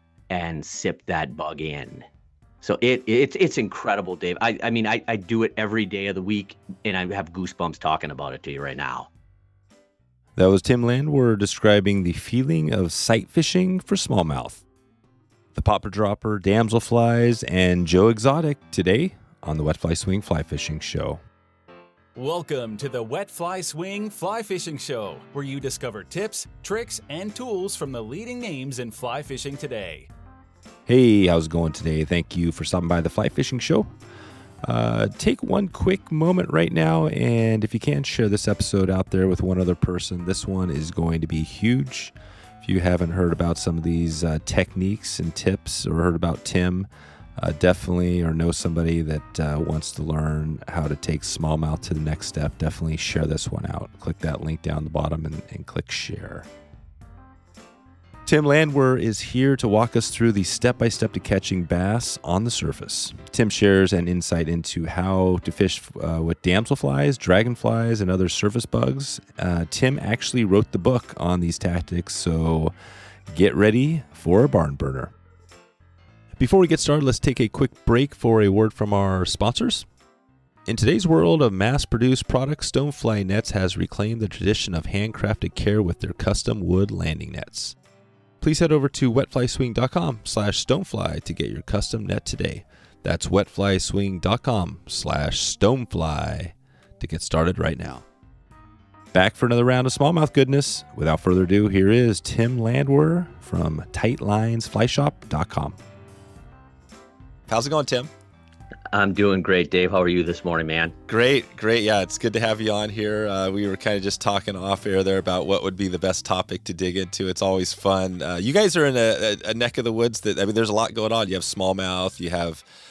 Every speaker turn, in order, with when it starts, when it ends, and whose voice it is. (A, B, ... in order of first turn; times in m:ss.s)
0:00.3-0:02.0 A
0:02.6-0:09.1 A
0:10.4-0:14.6 B
0:15.6-0:21.2 B
0:22.2-0:30.1 C
0:30.9-0:33.9 B
0:34.6-0:46.9 B
0:47.4-0:56.5 B
0:58.3-1:12.7 B
1:13.3-1:15.1 B
1:16.4-1:19.9 B
1:20.7-1:27.8 B
1:28.4-1:38.0 B
1:39.1-1:45.8 B
1:47.5-1:48.1 B
1:48.9-1:51.0 A
1:51.1-2:02.6 B